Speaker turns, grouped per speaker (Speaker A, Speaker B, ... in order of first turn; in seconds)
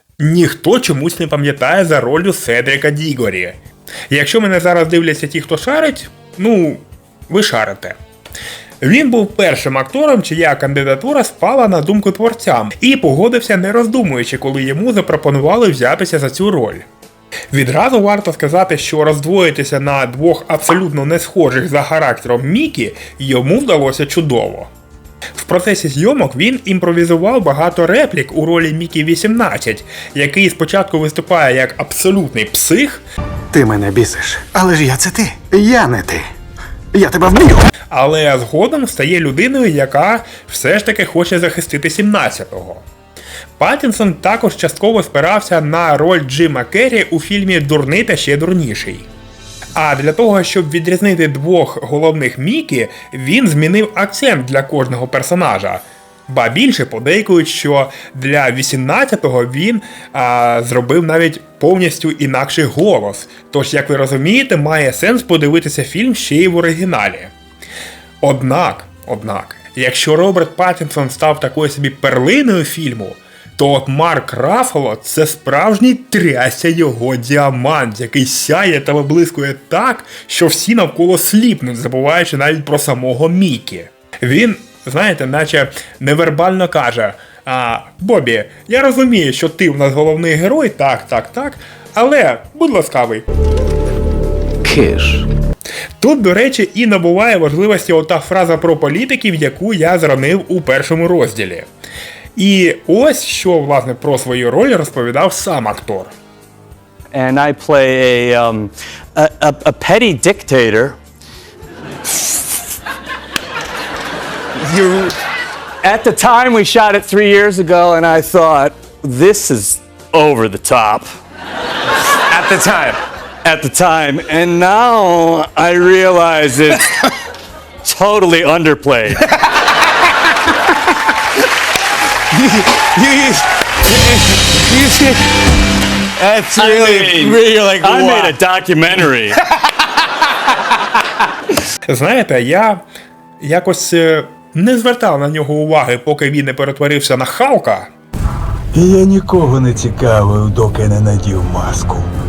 Speaker A: 0.2-3.6, 4.1-8.0, 8.8-16.8, 17.5-24.7, 25.3-33.0, 37.9-42.8, 43.6-49.1, 49.8-67.3, 68.2-93.2, 96.0-101.7, 102.3-106.1, 141.9-142.8, 143.4-147.9
Speaker B: 33.5-36.2, 36.9-37.7
Speaker C: 94.6-95.3, 136.5-138.3, 148.7-152.1
Speaker D: 107.1-111.0, 112.1-112.5, 114.6-115.1, 115.8-121.0, 122.3-127.1, 127.8-129.3, 132.8-133.4, 134.5-135.2, 136.2-139.4